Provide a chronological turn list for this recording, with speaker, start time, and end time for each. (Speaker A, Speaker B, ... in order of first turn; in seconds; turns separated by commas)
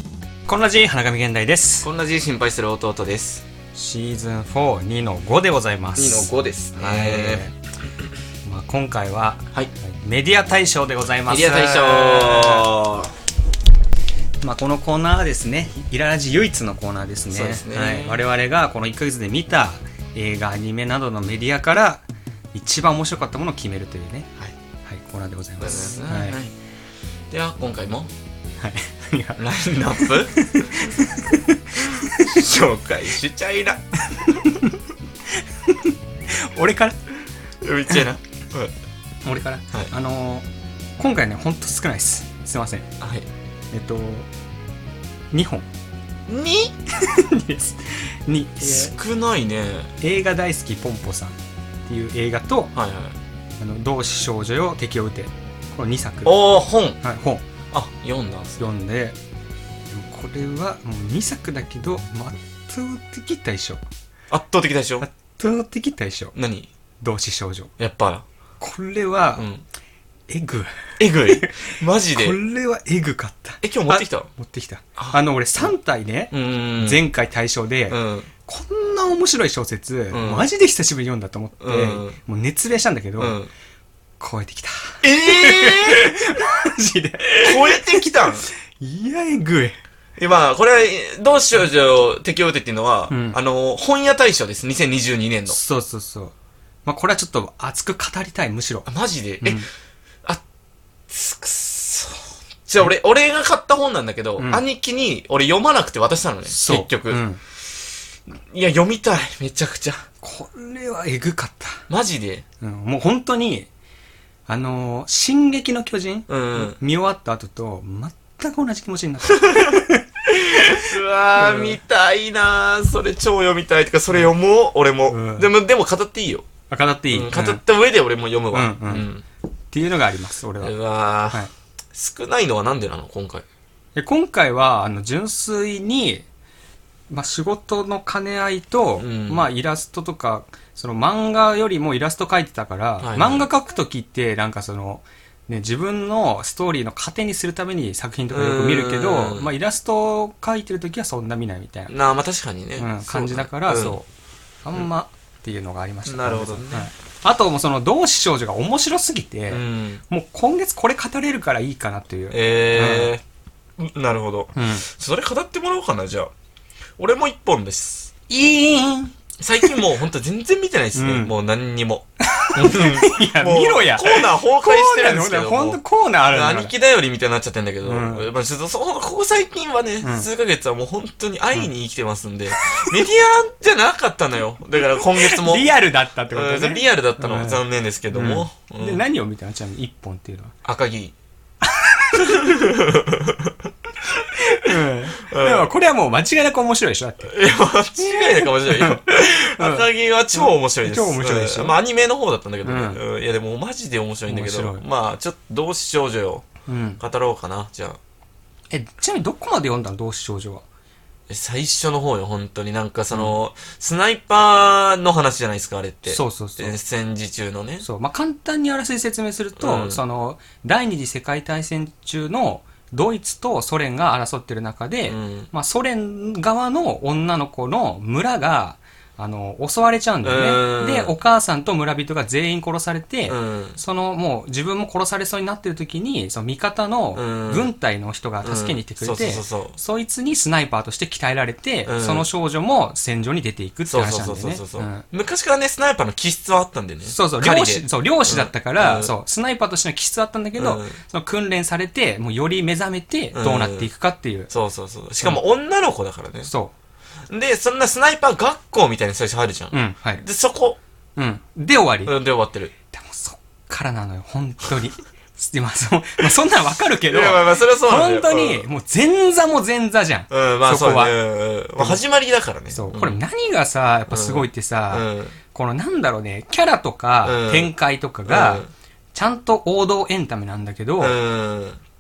Speaker A: 0.5-1.9, Speaker B: 1.8-3.5, Speaker A: 3.7-7.6, Speaker B: 6.0-7.5, Speaker A: 8.4-12.7, Speaker B: 11.3-13.1, Speaker A: 14.4-24.3, Speaker B: 17.3-18.2, Speaker A: 24.9-26.4, Speaker B: 25.6-26.5, Speaker B: 27.3-28.1, Speaker A: 28.6-32.4, Speaker B: 29.4-30.6, Speaker B: 31.8-33.8, Speaker A: 34.1-34.8, Speaker A: 35.3-37.0, Speaker B: 37.6-38.7, Speaker A: 39.2-40.5, Speaker A: 41.0-42.9, Speaker B: 43.0-43.3, Speaker A: 43.7-44.3, Speaker A: 45.3-45.7, Speaker B: 46.3-46.8, Speaker A: 46.9-48.9, Speaker B: 48.6-49.9, Speaker A: 50.0-51.4, Speaker A: 51.9-52.7, Speaker B: 52.8-53.2, Speaker A: 53.6-56.4, Speaker B: 56.2-57.0, Speaker A: 57.0-57.4, Speaker B: 57.7-58.6, Speaker A: 58.6-59.2, Speaker A: 59.9-63.8, Speaker B: 64.3-65.0, Speaker A: 65.0-66.3, Speaker B: 66.3-66.7, Speaker A: 67.0-67.7, Speaker B: 67.8-68.2, Speaker A: 68.6-69.5, Speaker B: 69.4-69.6, Speaker A: 70.3-83.4, Speaker B: 71.0-72.4, Speaker B: 73.6-74.3, Speaker B: 75.0-75.7, Speaker B: 76.3-77.0, Speaker B: 77.9-78.3, Speaker B: 80.1-80.5, Speaker B: 81.6-82.2, Speaker B: 83.2-83.5, Speaker A: 84.2-89.8, Speaker B: 85.0-86.4, Speaker B: 87.4-88.5, Speaker B: 90.2-95.6, Speaker A: 93.1-93.4, Speaker A: 95.5-96.3, Speaker A: 96.8-98.9, Speaker B: 98.9-99.7, Speaker A: 99.4-99.7, Speaker B: 101.1-107.8, Speaker A: 104.4-104.6, Speaker A: 106.5-107.4, Speaker B: 108.3-110.0, Speaker A: 110.2-111.8, Speaker B: 111.9-112.5, Speaker A: 112.6-113.7, Speaker A: 114.5-120.0, Speaker B: 116.3-116.8, Speaker B: 119.3-126.5, Speaker A: 121.4-121.8, Speaker A: 125.1-125.5, Speaker A: 126.7-127.6, Speaker B: 127.1-129.2, Speaker A: 128.5-129.1, Speaker A: 129.7-130.8, Speaker B: 130.6-133.4, Speaker A: 134.0-136.2, Speaker A: 137.1-151.9, Speaker B: 139.0-139.5, Speaker B: 143.0-143.5, Speaker B: 148.3-149.5, Speaker B: 151.9-154.0, Speaker A: 152.8-154.1, Speaker A: 154.6-163.1, Speaker B: 156.1-156.9, Speaker B: 159.5-160.0, Speaker B: 162.3-163.2, Speaker B: 163.8-166.3, Speaker A: 164.6-164.9, Speaker B: 167.0-168.1, Speaker A: 168.3-169.7, Speaker B: 169.4-185.7, Speaker A: 170.9-171.3, Speaker A: 172.2-176.7, Speaker A: 177.8-178.3, Speaker A: 182.6-183.0, Speaker A: 184.8-190.5, Speaker B: 186.3-189.0, Speaker B: 190.6-191.1, Speaker A: 191.6-192.4, Speaker B: 192.1-193.6, Speaker B: 194.1-194.7, Speaker A: 194.4-197.3, Speaker B: 195.2-195.7, Speaker B: 197.3-206.5, Speaker A: 198.0-201.8, Speaker A: 202.6-203.0, Speaker A: 204.3-204.8, Speaker A: 206.7-207.0, Speaker B: 207.0-208.0, Speaker A: 208.7-210.6, Speaker B: 211.3-217.9, Speaker A: 216.1-216.7, Speaker A: 217.8-245.1, Speaker B: 219.6-220.0, Speaker B: 225.1-225.5, Speaker B: 230.2-231.1, Speaker B: 233.3-233.8, Speaker B: 237.1-237.7, Speaker B: 238.4-239.8, Speaker B: 241.9-242.3, Speaker B: 243.9-249.1, Speaker A: 247.1-254.5, Speaker B: 250.6-251.0, Speaker B: 253.3-253.9, Speaker B: 254.5-256.5, Speaker A: 256.4-256.7, Speaker B: 257.3-260.8, Speaker A: 259.7-260.2, Speaker A: 261.2-262.1, Speaker B: 262.1-262.7, Speaker A: 262.9-271.1, Speaker B: 267.1-268.6, Speaker B: 270.3-273.2, Speaker A: 272.7-281.2, Speaker B: 274.1-275.4, Speaker B: 277.2-277.7, Speaker B: 278.3-278.7, Speaker B: 281.0-281.8